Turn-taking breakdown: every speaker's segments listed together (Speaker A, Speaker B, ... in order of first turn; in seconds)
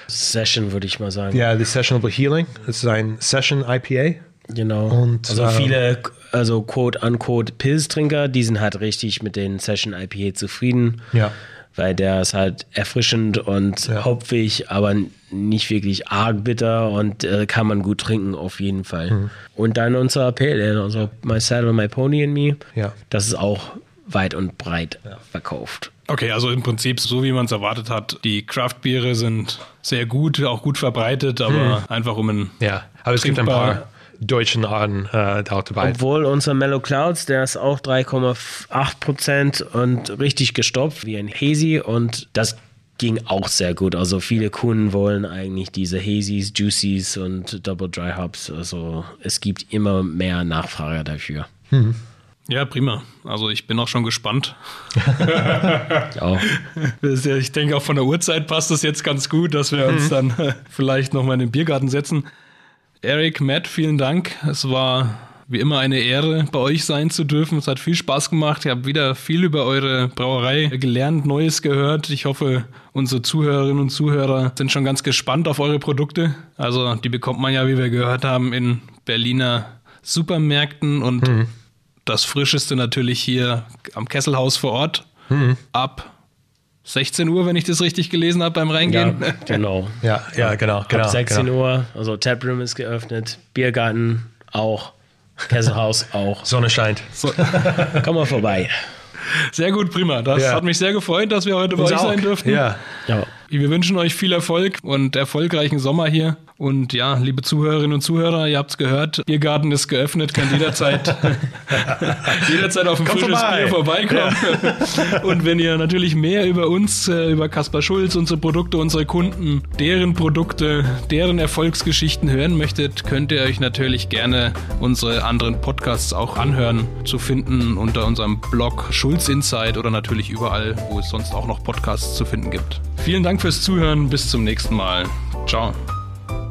Speaker A: 0.1-1.4, 4.5-11.1, 11.8-25.9, 35.8-51.5, 56.1-56.5, 88.8-94.9, 95.5-96.5, 97.9-98.8
Speaker B: 1.3-4.2, 4.9-5.8, 31.5-31.8, 32.6-36.0, 51.7-52.0, 55.0-55.6, 59.9-60.1, 81.2-81.5, 85.3-85.6, 90.0-91.5, 96.4-98.0, 100.3-100.6, 101.8-102.8, 111.7-115.3
Speaker C: 26.1-32.6, 33.2-33.8, 52.5-62.2, 63.0-81.4, 82.1-85.1, 85.7-86.1, 86.8-89.6, 97.2-98.0, 99.2-102.8, 103.5-135.8